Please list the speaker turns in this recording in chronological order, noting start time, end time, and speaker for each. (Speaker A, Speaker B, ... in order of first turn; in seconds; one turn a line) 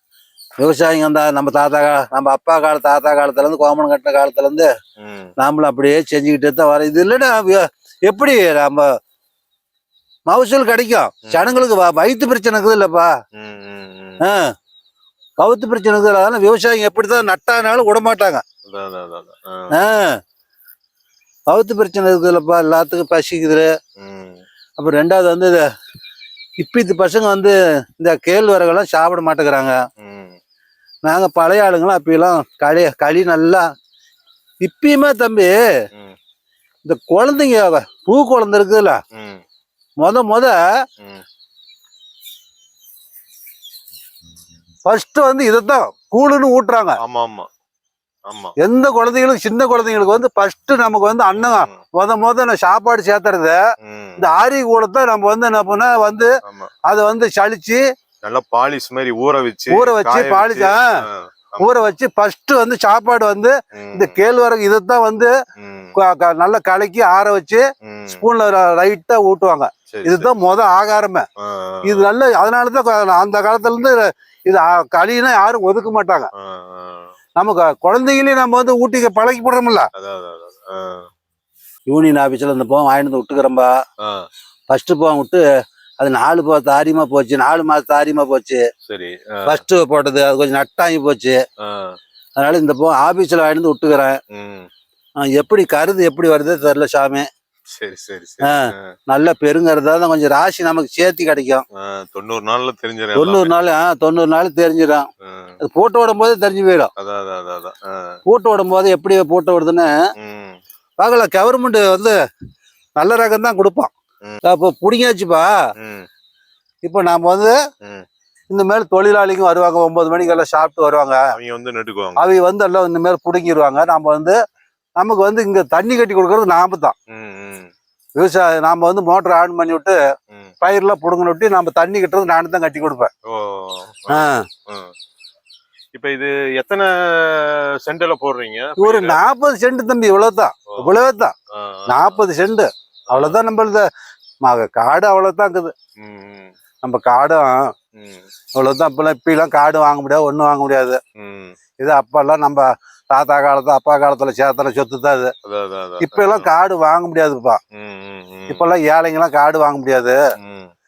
Speaker A: 0.6-4.7
Speaker B: 5.0-5.3
Speaker A: 5.4-8.8
Speaker A: 10.3-13.1
Speaker B: 13.4-14.2
Speaker A: 15.4-18.4
Speaker B: 18.7-19.7
Speaker A: 19.7-20.1
Speaker A: 21.5-23.7
Speaker B: 24.0-24.4
Speaker A: 24.8-25.6
Speaker A: 26.6-29.8
Speaker B: 30.0-30.4
Speaker A: 31.1-33.6
Speaker A: 34.6-35.5
Speaker A: 36.8-39.0
Speaker B: 39.1-39.4
Speaker A: 40.0-40.6
Speaker A: 44.9-47.0
Speaker B: 47.0-47.5
Speaker B: 48.3-48.5
Speaker A: 48.6-53.6
Speaker B: 51.4-51.8
Speaker B: 53.8-54.2
Speaker A: 54.2-56.3
Speaker B: 56.5-56.7
Speaker A: 56.9-57.8
Speaker B: 58.2-61.7
Speaker A: 59.7-60.9
Speaker A: 61.6-65.3
Speaker B: 63.8-64.2
Speaker B: 65.6-65.9
Speaker A: 66.0-67.6
Speaker B: 67.9-68.2
Speaker A: 68.2-71.2
Speaker B: 69.9-70.3
Speaker B: 71.6-72.1
Speaker A: 71.8-76.3
Speaker B: 76.5-77.1
Speaker A: 77.4-79.9
Speaker B: 80.0-81.0
Speaker A: 81.9-83.7
Speaker A: 84.7-85.4
Speaker A: 86.0-88.6
Speaker B: 88.9-89.6
Speaker A: 89.5-91.4
Speaker B: 91.7-92.0
Speaker A: 92.4-94.2
Speaker B: 94.3-94.7
Speaker A: 95.3-97.3
Speaker B: 97.7-98.8
Speaker A: 98.4-101.6
Speaker B: 101.8-103.5
Speaker A: 103.2-105.0
Speaker B: 105.2-105.6
Speaker A: 105.6-106.9
Speaker B: 107.0-108.2
Speaker A: 108.3-109.9
Speaker B: 110.2-110.6
Speaker A: 111.0-112.2
Speaker A: 113.0-113.9
Speaker A: 114.4-115.5
Speaker B: 115.8-116.1
Speaker A: 116.8-117.5
Speaker A: 118.5-121.2
Speaker B: 121.3-122.2
Speaker A: 122.2-124.3
Speaker A: 125.0-127.0
Speaker B: 127.1-127.7
Speaker A: 128.2-130.0
Speaker A: 130.6-133.1
Speaker B: 133.3-134.9
Speaker A: 134.1-134.4
Speaker B: 135.9-139.2
Speaker A: 138.8-141.3
Speaker B: 141.6-142.2
Speaker A: 141.9-143.8
Speaker B: 143.1-143.4
Speaker A: 144.4-145.7
Speaker B: 146.0-146.5
Speaker A: 146.8-147.6
Speaker B: 148.0-148.3
Speaker A: 148.6-151.0
Speaker B: 151.2-151.6
Speaker A: 151.8-155.3
Speaker B: 155.5-156.5
Speaker A: 156.0-157.6
Speaker B: 157.8-158.7
Speaker A: 158.5-160.2
Speaker B: 160.4-160.7